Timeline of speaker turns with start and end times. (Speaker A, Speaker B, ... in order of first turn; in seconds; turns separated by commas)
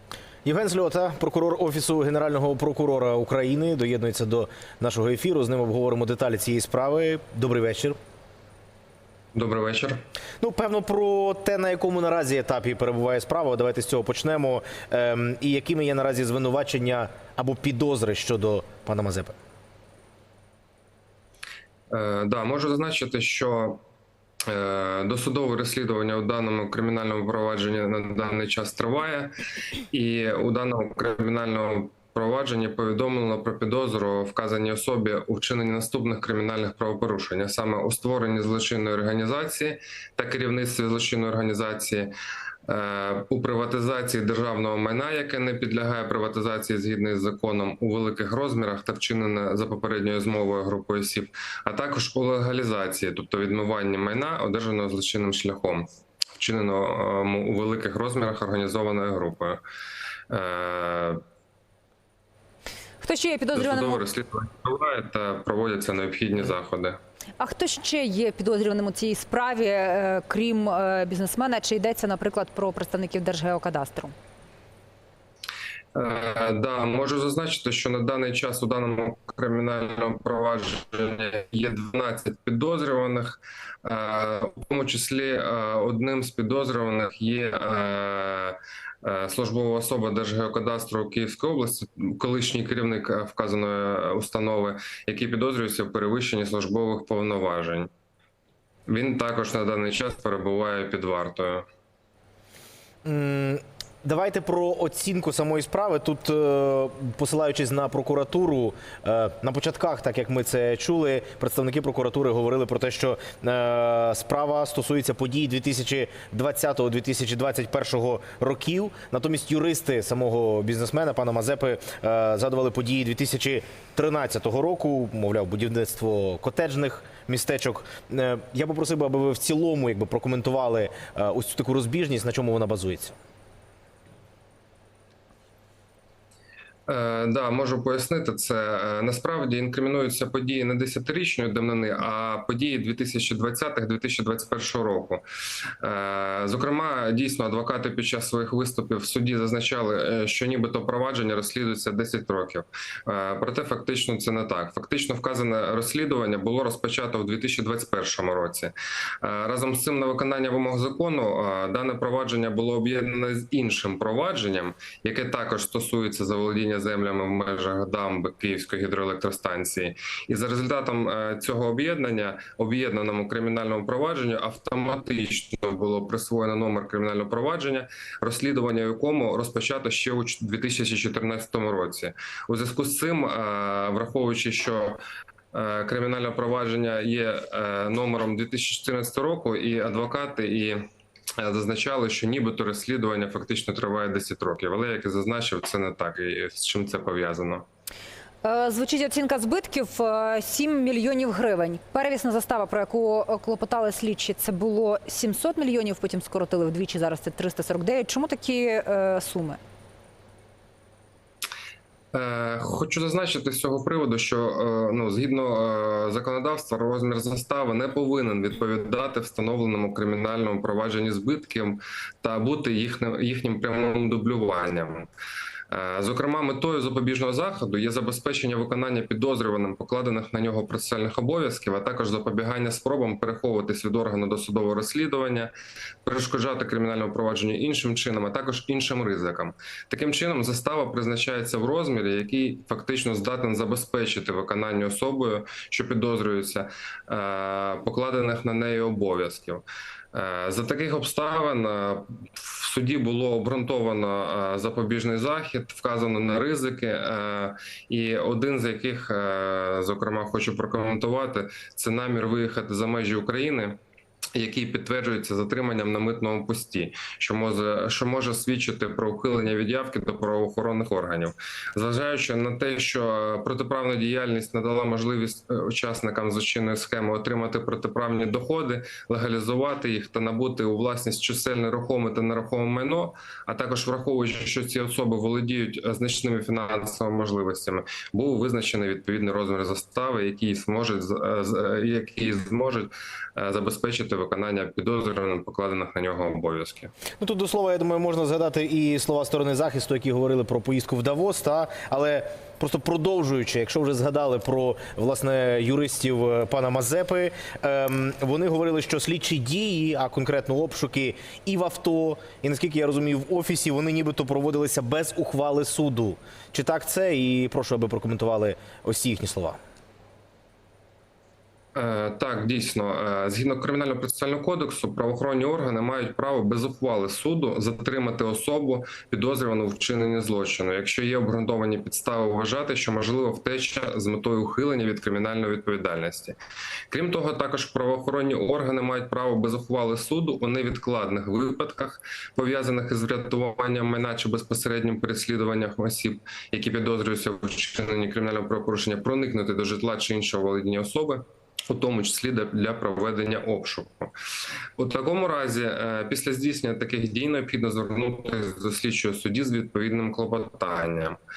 Speaker A: 0.4-8.0, Speaker B: 9.3-10.0, Speaker A: 10.4-19.3, Speaker B: 21.9-23.8, Speaker B: 24.5-29.3, Speaker B: 29.9-42.1, Speaker B: 42.7-55.9, Speaker B: 56.4-59.6, Speaker B: 60.3-61.2, Speaker C: 63.0-64.0, Speaker B: 63.5-67.0, Speaker C: 67.4-74.1, Speaker B: 75.9-97.9, Speaker B: 98.9-101.7, Speaker A: 103.0-133.1, Speaker B: 136.9-145.2, Speaker B: 145.8-185.0, Speaker B: 185.5-190.8, Speaker B: 191.4-197.6, Speaker C: 198.4-209.6, Speaker B: 212.1-225.1, Speaker B: 225.7-235.5, Speaker B: 236.0-263.8, Speaker B: 264.3-296.9, Speaker A: 297.2-319.6, Speaker B: 321.7-336.4, Speaker B: 336.9-354.1, Speaker B: 354.8-361.2